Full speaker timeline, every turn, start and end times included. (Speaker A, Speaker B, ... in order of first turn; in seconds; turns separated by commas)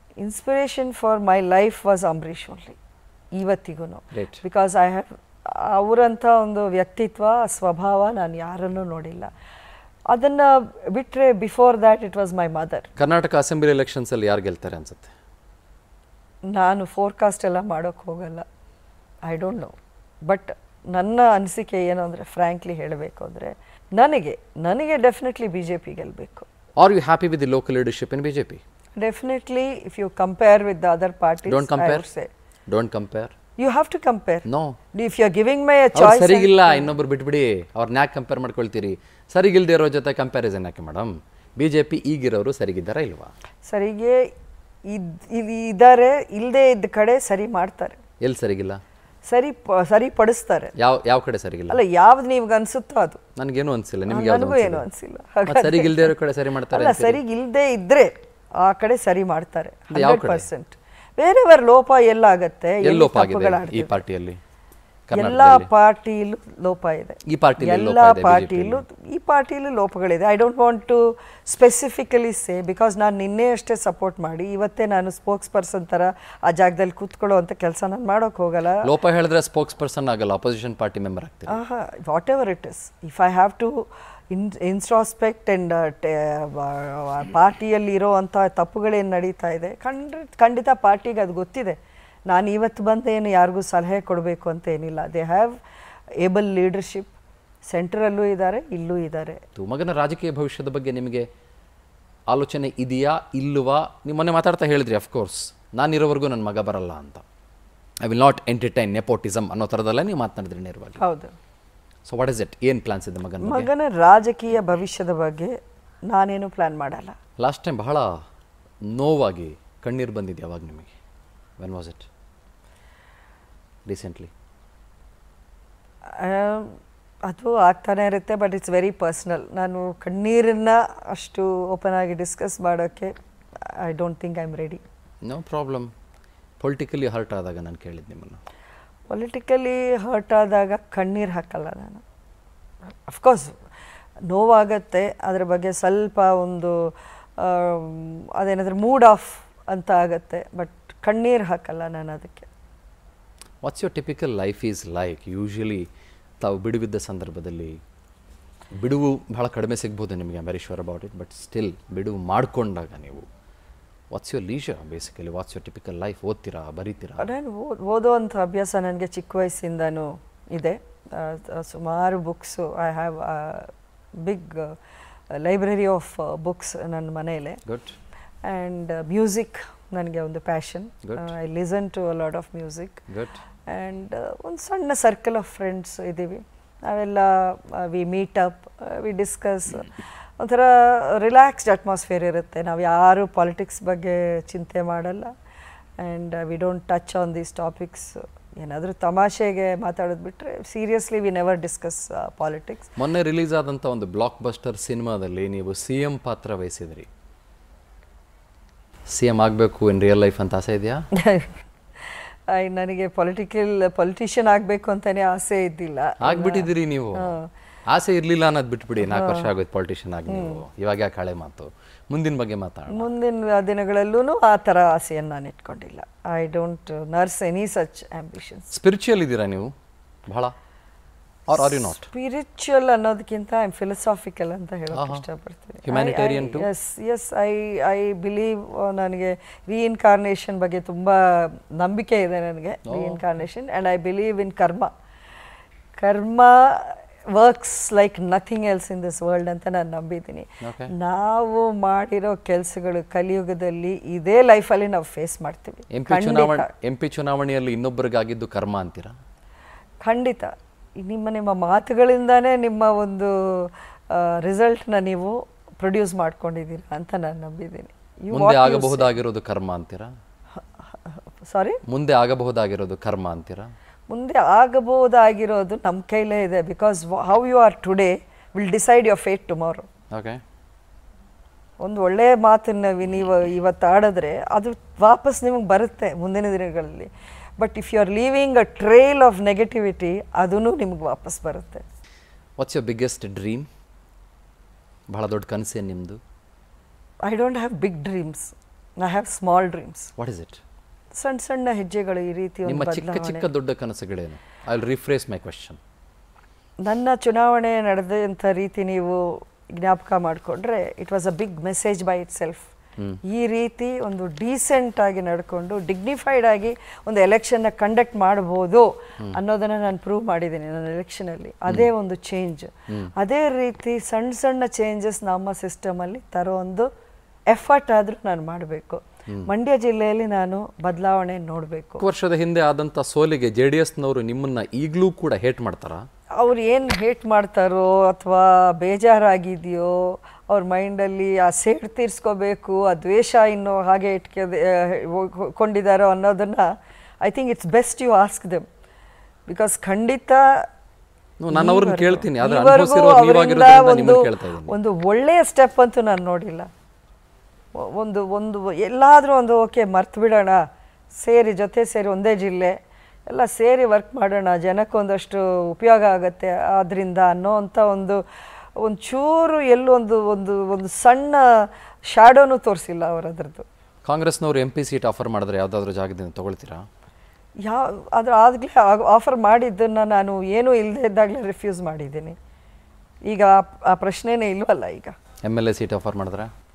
Speaker A: 0.2-2.8, Speaker A: 3.3-9.3, Speaker B: 4.1-4.4, Speaker A: 10.1-12.9, Speaker B: 13.0-15.1, Speaker A: 16.5-18.4, Speaker A: 19.2-19.7, Speaker A: 20.2-26.5, Speaker B: 26.8-28.6, Speaker A: 28.9-32.3, Speaker B: 31.4-32.0, Speaker B: 32.7-33.3, Speaker A: 33.6-37.0, Speaker B: 34.5-34.8, Speaker B: 35.9-43.3, Speaker A: 43.6-44.3, Speaker A: 44.9-48.0, Speaker B: 48.2-48.8, Speaker A: 49.2-50.7, Speaker B: 50.8-51.8, Speaker A: 51.7-53.2, Speaker B: 53.4-54.8, Speaker A: 54.1-56.1, Speaker B: 55.5-57.2, Speaker A: 56.7-64.0, Speaker B: 59.9-60.5, Speaker B: 62.8-64.4, Speaker B: 65.1-65.7, Speaker A: 65.1-78.8, Speaker B: 67.3-68.8, Speaker B: 78.8-81.6, Speaker A: 81.5-91.8, Speaker A: 92.3-95.6, Speaker A: 96.2-97.1, Speaker A: 97.6-99.4, Speaker B: 99.5-101.3, Speaker B: 102.3-107.2, Speaker B: 108.0-111.0, Speaker A: 111.0-111.3, Speaker B: 112.0-113.7, Speaker A: 113.4-115.5, Speaker A: 116.1-117.2, Speaker B: 117.4-118.1, Speaker B: 118.8-120.9, Speaker B: 121.6-122.1, Speaker B: 123.8-124.3, Speaker A: 126.2-133.1, Speaker A: 133.7-134.8, Speaker B: 135.2-135.9, Speaker B: 136.6-138.4, Speaker A: 139.1-142.0, Speaker A: 143.1-143.6, Speaker A: 144.3-152.5, Speaker B: 153.6-155.9, Speaker B: 156.4-157.8, Speaker B: 158.8-163.2, Speaker B: 164.1-167.3, Speaker A: 167.2-174.8, Speaker A: 175.3-177.6, Speaker B: 177.7-178.0, Speaker A: 178.4-183.1, Speaker B: 181.0-181.3, Speaker B: 183.1-183.4, Speaker A: 183.7-195.3, Speaker A: 196.0-202.9, Speaker B: 203.0-207.1, Speaker B: 209.1-211.1, Speaker A: 211.1-217.5, Speaker B: 216.2-217.3, Speaker B: 217.9-223.1, Speaker A: 219.0-219.5, Speaker A: 220.3-220.6, Speaker A: 222.9-228.7, Speaker B: 228.7-229.7, Speaker B: 230.3-230.5, Speaker B: 231.5-232.1, Speaker A: 231.6-244.9, Speaker B: 234.9-235.2, Speaker B: 235.8-236.7, Speaker B: 242.8-243.2, Speaker A: 246.0-256.7, Speaker B: 250.6-250.9, Speaker B: 255.9-259.1, Speaker A: 260.0-269.1, Speaker B: 268.3-270.1, Speaker A: 270.8-271.8, Speaker B: 271.9-273.7, Speaker A: 274.1-279.9, Speaker B: 280.1-280.4, Speaker A: 281.8-291.8, Speaker B: 292.6-293.7, Speaker B: 295.1-296.2, Speaker A: 297.2-300.1, Speaker B: 300.2-300.6, Speaker A: 301.1-303.5, Speaker B: 302.6-305.8, Speaker A: 306.8-312.7, Speaker A: 313.3-326.9, Speaker A: 327.5-332.0, Speaker B: 332.0-336.0, Speaker A: 336.4-346.7, Speaker A: 347.2-348.7, Speaker A: 349.5-350.7, Speaker B: 351.4-354.7, Speaker A: 351.5-356.7, Speaker A: 357.7-360.6, Speaker A: 361.1-362.8, Speaker A: 363.3-368.2, Speaker A: 368.8-373.6, Speaker B: 374.0-376.9, Speaker A: 377.6-382.4, Speaker A: 383.2-385.1, Speaker B: 385.4-386.5